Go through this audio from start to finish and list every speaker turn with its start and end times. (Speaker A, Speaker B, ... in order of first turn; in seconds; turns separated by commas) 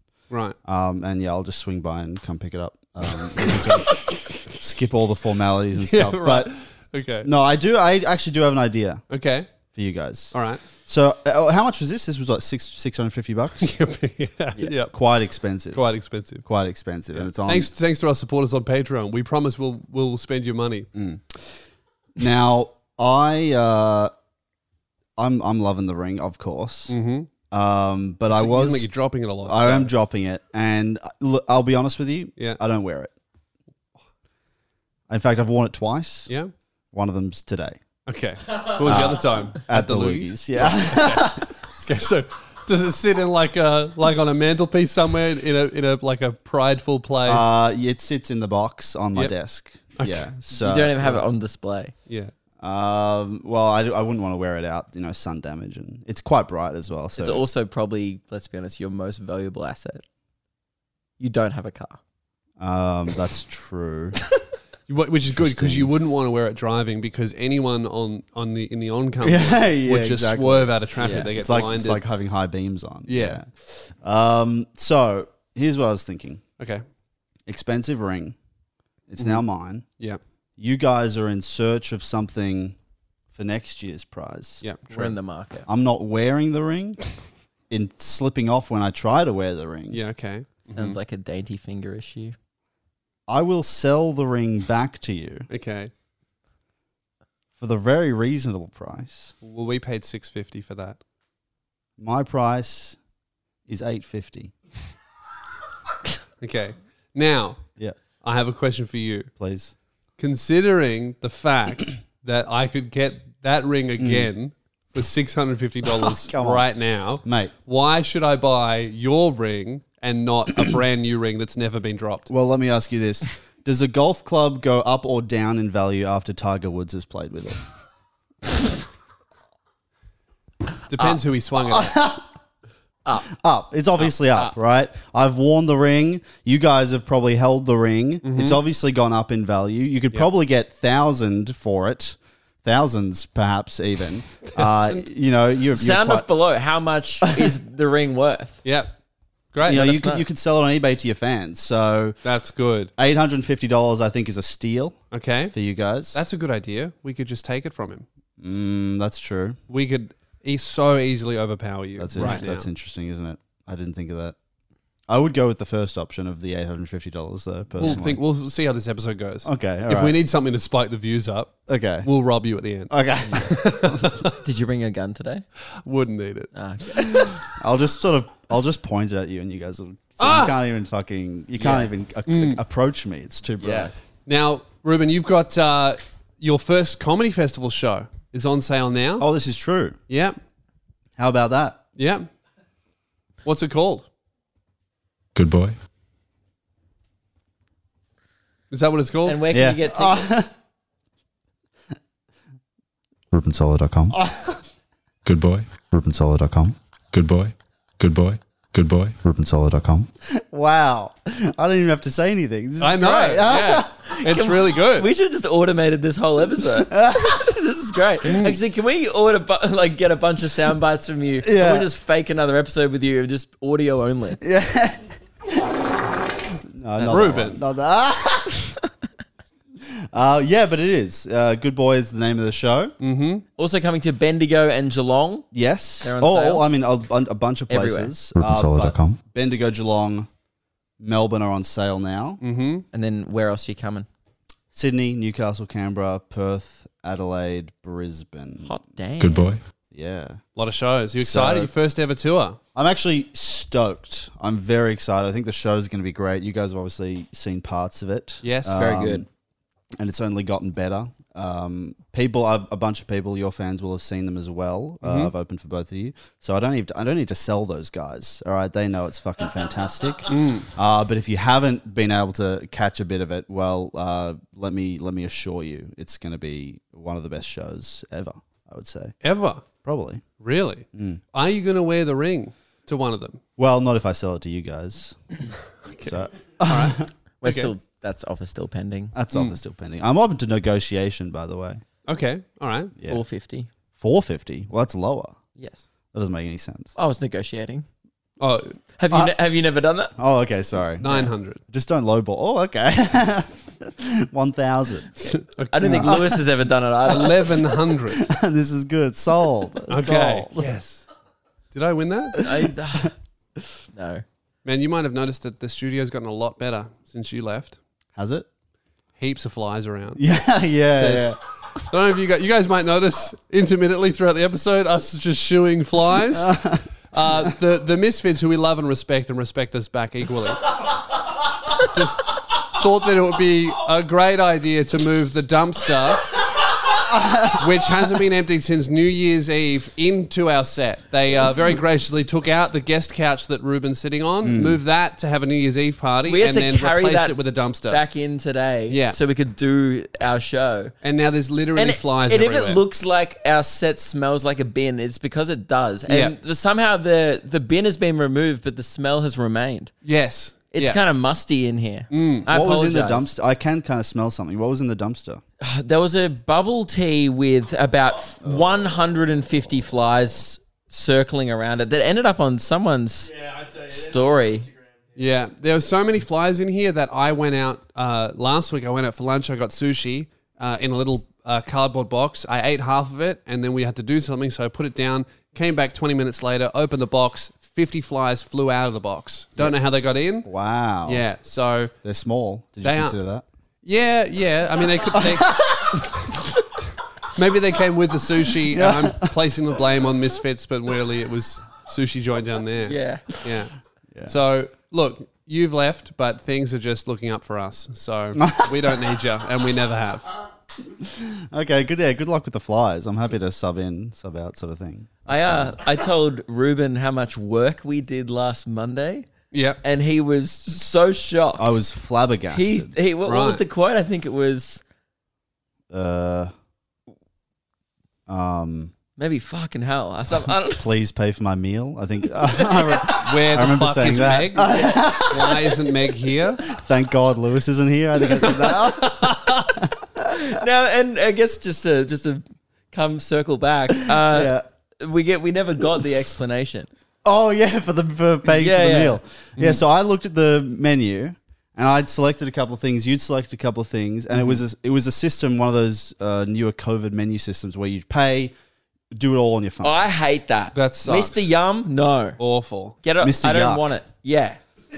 Speaker A: 0.3-0.6, Speaker B: 0.6-6.5, Speaker A: 5.8-7.3, Speaker B: 7.2-9.0, Speaker A: 9.1-9.5, Speaker B: 9.8-13.7, Speaker A: 10.3-10.6, Speaker A: 13.6-14.9, Speaker B: 14.9-15.8, Speaker A: 15.7-16.4, Speaker B: 16.4-17.7, Speaker A: 17.1-20.9, Speaker B: 20.9-21.6, Speaker B: 22.2-24.1, Speaker B: 25.2-26.9, Speaker A: 26.9-27.3, Speaker B: 27.5-28.9, Speaker A: 28.3-29.9, Speaker B: 29.4-33.1, Speaker B: 35.1-36.3, Speaker B: 36.9-37.8, Speaker A: 38.1-47.6, Speaker B: 38.8-41.5, Speaker B: 47.2-51.0, Speaker A: 50.0-50.3, Speaker C: 50.5-51.9, Speaker B: 52.6-57.4, Speaker C: 57.2-60.0, Speaker C: 61.2-62.0, Speaker B: 62.6-64.2, Speaker A: 64.9-72.0, Speaker B: 65.3-65.9, Speaker B: 69.2-76.4, Speaker C: 71.0-71.3, Speaker A: 73.1-73.4, Speaker B: 77.5-78.4, Speaker B: 79.1-79.8, Speaker B: 80.6-82.8, Speaker B: 83.3-84.6, Speaker A: 84.6-85.2, Speaker C: 84.9-85.7, Speaker B: 85.7-87.0, Speaker B: 87.7-90.0, Speaker A: 89.9-91.0, Speaker C: 90.7-92.3, Speaker B: 93.3-95.5, Speaker A: 95.5-95.9, Speaker B: 97.6-99.3, Speaker A: 99.4-101.0, Speaker B: 102.0-103.0, Speaker B: 103.7-104.5, Speaker A: 106.4-107.6, Speaker A: 108.2-109.3, Speaker B: 109.4-109.7, Speaker A: 110.2-122.3, Speaker B: 114.0-114.3, Speaker B: 115.9-117.5, Speaker B: 122.3-127.6, Speaker A: 130.9-132.1, Speaker B: 131.7-132.2, Speaker B: 133.2-146.3, Speaker C: 134.0-134.5, Speaker A: 138.2-138.6, Speaker A: 144.5-145.1, Speaker C: 145.7-148.6, Speaker B: 147.3-147.5, Speaker A: 148.6-148.9, Speaker A: 149.5-149.8, Speaker B: 149.7-152.2, Speaker C: 149.7-150.2, Speaker A: 152.2-152.9, Speaker B: 153.0-155.0, Speaker A: 155.1-155.5, Speaker B: 155.5-156.2, Speaker A: 156.1-158.1, Speaker B: 158.4-159.6, Speaker A: 159.7-162.7, Speaker B: 162.0-164.4, Speaker B: 165.1-168.2, Speaker A: 167.8-174.3, Speaker B: 169.4-170.2, Speaker B: 171.7-172.1, Speaker B: 172.9-174.2, Speaker C: 174.4-175.4, Speaker A: 175.8-176.5, Speaker C: 176.5-177.3, Speaker B: 177.5-183.9, Speaker A: 180.2-180.6, Speaker C: 181.6-181.9, Speaker A: 182.3-182.6, Speaker C: 183.6-183.9, Speaker A: 184.3-189.2, Speaker B: 189.2-190.0, Speaker A: 190.1-190.4, Speaker B: 191.2-191.8, Speaker A: 192.0-192.3, Speaker A: 193.4-194.1, Speaker D: 195.3-195.8, Speaker A: 198.7-199.4, Speaker C: 199.3-200.3, Speaker B: 199.5-200.5, Speaker B: 203.3-204.6, Speaker D: 205.2-205.7, Speaker B: 205.9-206.8, Speaker D: 207.1-209.2, Speaker B: 209.2-213.9, Speaker A: 212.8-215.1, Speaker C: 213.6-224.4, Speaker B: 216.9-217.4, Speaker A: 218.2-218.6, Speaker B: 221.4-221.9, Speaker B: 224.4-225.7, Speaker B: 226.7-228.7, Speaker C: 227.0-227.5, Speaker A: 227.1-227.6, Speaker B: 229.9-232.9, Speaker A: 233.0-233.4, Speaker C: 233.6-235.5, Speaker B: 235.5-240.3, Speaker C: 236.0-236.7, Speaker C: 237.7-238.2, Speaker D: 238.4-238.9, Speaker B: 241.0-242.4, Speaker A: 242.4-242.8, Speaker C: 242.9-244.1, Speaker B: 244.7-248.7, Speaker C: 248.6-249.4, Speaker D: 249.2-249.6, Speaker B: 249.9-250.4, Speaker A: 250.6-252.6, Speaker B: 251.2-251.7, Speaker B: 252.8-259.3, Speaker A: 258.4-259.0, Speaker C: 258.8-259.2, Speaker B: 260.0-279.1, Speaker A: 265.0-265.3, Speaker A: 270.3-270.7, Speaker A: 279.2-279.6, Speaker B: 279.8-280.2, Speaker A: 280.4-283.4, Speaker B: 280.9-281.2, Speaker B: 283.6-285.2, Speaker A: 285.9-287.7, Speaker B: 286.0-287.1, Speaker C: 287.4-289.1, Speaker B: 289.1-291.8, Speaker A: 289.3-289.6, Speaker A: 292.1-292.9, Speaker C: 293.1-293.7, Speaker B: 294.0-295.4, Speaker C: 295.6-295.8, Speaker B: 296.1-296.9, Speaker C: 297.0-297.9, Speaker A: 298.4-298.8, Speaker C: 299.0-300.1, Speaker B: 300.2-301.1, Speaker A: 301.0-301.6, Speaker B: 301.7-305.2, Speaker C: 305.2-307.5, Speaker A: 305.2-306.4, Speaker B: 305.9-306.3, Speaker A: 307.1-308.3, Speaker B: 308.1-310.7, Speaker A: 309.9-311.1, Speaker A: 311.7-312.4, Speaker C: 312.4-313.1, Speaker C: 313.9-314.2, Speaker A: 314.6-317.8, Speaker B: 318.2-318.5, Speaker A: 319.2-320.2, Speaker B: 320.2-321.4, Speaker A: 321.0-326.6, Speaker B: 326.3-326.9, Speaker A: 327.1-330.7, Speaker A: 331.8-336.4, Speaker B: 337.1-337.7, Speaker A: 337.5-348.0, Speaker B: 344.4-344.8, Speaker C: 346.2-350.9, Speaker A: 348.9-349.2, Speaker A: 351.0-352.8, Speaker C: 351.8-359.9, Speaker A: 356.1-356.4, Speaker A: 360.0-361.0, Speaker C: 360.7-363.3, Speaker A: 362.1-362.5, Speaker B: 362.5-365.4, Speaker C: 365.6-374.7, Speaker A: 375.2-390.5, Speaker B: 390.4-391.2, Speaker A: 391.1-391.9, Speaker B: 392.0-393.4, Speaker A: 392.8-393.2, Speaker A: 393.8-395.8, Speaker B: 395.1-396.0, Speaker A: 397.4-403.7, Speaker B: 398.7-399.4, Speaker C: 402.9-403.3, Speaker A: 404.3-410.3, Speaker B: 408.4-408.8, Speaker B: 410.9-415.8, Speaker C: 415.3-419.3, Speaker A: 419.5-419.8, Speaker C: 419.8-421.8, Speaker B: 421.6-422.9, Speaker C: 422.5-424.8, Speaker A: 423.3-423.6, Speaker B: 425.9-426.5, Speaker B: 428.3-428.9, Speaker C: 429.2-430.9, Speaker B: 430.7-435.8, Speaker A: 433.1-436.6, Speaker B: 436.6-440.4, Speaker A: 439.0-439.7, Speaker C: 440.3-446.9, Speaker B: 443.9-444.6, Speaker B: 447.2-458.5, Speaker C: 448.5-449.2, Speaker B: 459.1-460.0, Speaker C: 459.8-462.4, Speaker A: 460.8-461.5, Speaker A: 462.4-463.0, Speaker C: 463.0-464.6, Speaker B: 463.2-463.9